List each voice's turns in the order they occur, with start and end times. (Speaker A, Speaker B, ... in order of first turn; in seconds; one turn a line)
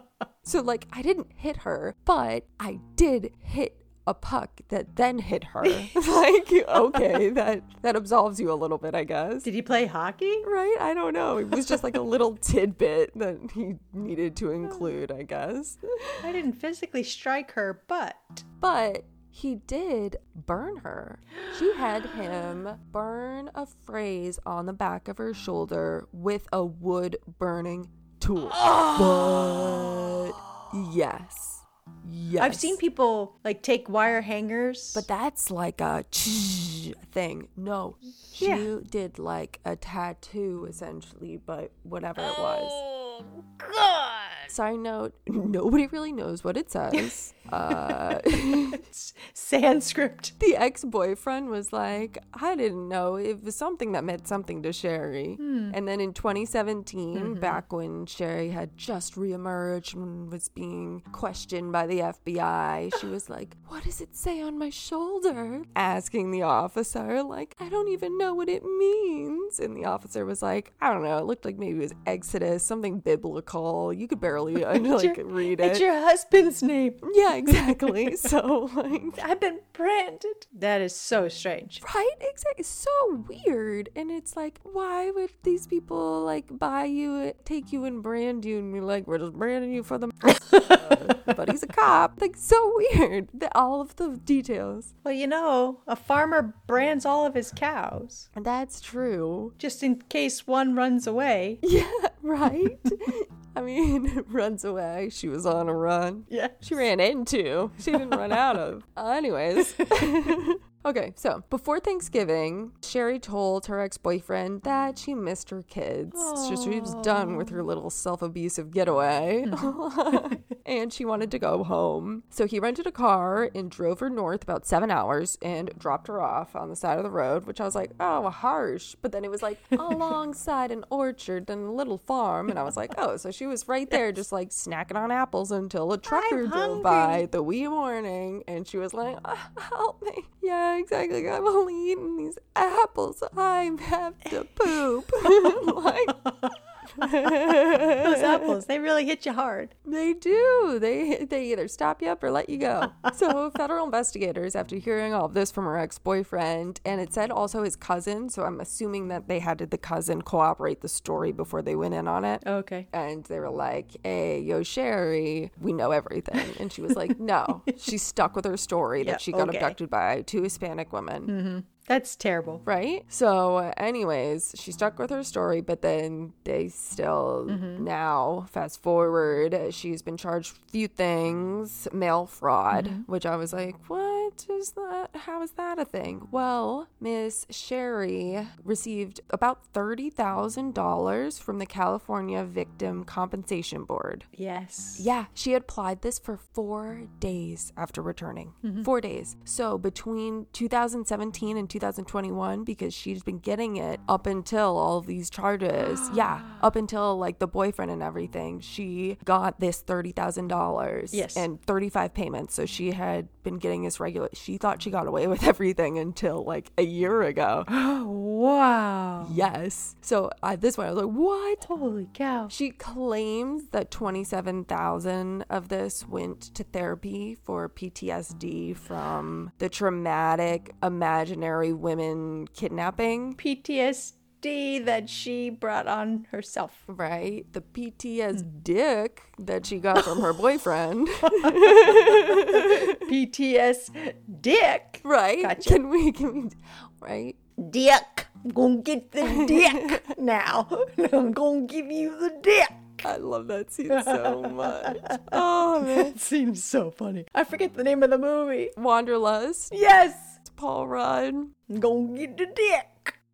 Speaker A: 0.4-9.5
Speaker B: 5.6-5.9
Speaker B: 9.4-10.5
Speaker A: 10.4-16.3
Speaker B: 14.7-14.9
Speaker B: 16.2-18.4
Speaker A: 18.6-32.8
Speaker B: 28.5-30.7
Speaker B: 32.4-35.0
Speaker A: 34.9-42.8
Speaker B: 38.3-38.7
Speaker B: 42.2-44.5
Speaker A: 44.5-48.8
Speaker B: 47.7-50.3
Speaker A: 50.4-75.8
Speaker B: 55.4-55.8
Speaker B: 57.1-57.6
Speaker B: 74.7-78.3
Speaker A: 77.0-79.2
Speaker B: 79.2-81.8
Speaker A: 81.8-94.9
Speaker B: 90.4-91.3
Speaker B: 95.0-98.3
Speaker A: 98.3-99.5
Speaker B: 99.6-101.6
Speaker A: 101.6-146.2
Speaker B: 106.3-106.8
Speaker B: 107.9-108.3
Speaker B: 116.1-117.6
Speaker B: 119.4-120.3
Speaker B: 136.1-137.2
Speaker B: 146.2-149.7
Speaker A: 146.9-148.6
Speaker A: 149.8-171.3
Speaker B: 162.4-162.9
Speaker B: 169.0-169.8
Speaker B: 171.2-172.6
Speaker A: 172.6-194.2
Speaker B: 177.5-177.9
Speaker B: 182.7-183.0
Speaker B: 194.3-195.1
Speaker A: 195.0-217.7
Speaker B: 198.6-198.9
Speaker B: 205.8-206.7
Speaker B: 211.1-211.5
Speaker B: 217.7-219.4
Speaker A: 219.2-221.6
Speaker B: 221.6-222.5
Speaker A: 222.5-233.4
Speaker B: 233.4-236.9
Speaker A: 236.9-243.0
Speaker B: 241.3-245.8
Speaker A: 245.0-247.4
Speaker B: 247.6-253.1
Speaker A: 249.2-250.0
Speaker A: 253.0-256.1
Speaker B: 253.9-258.7
Speaker A: 258.8-259.7
Speaker B: 259.7-260.4
Speaker A: 260.4-261.5
Speaker B: 261.7-263.1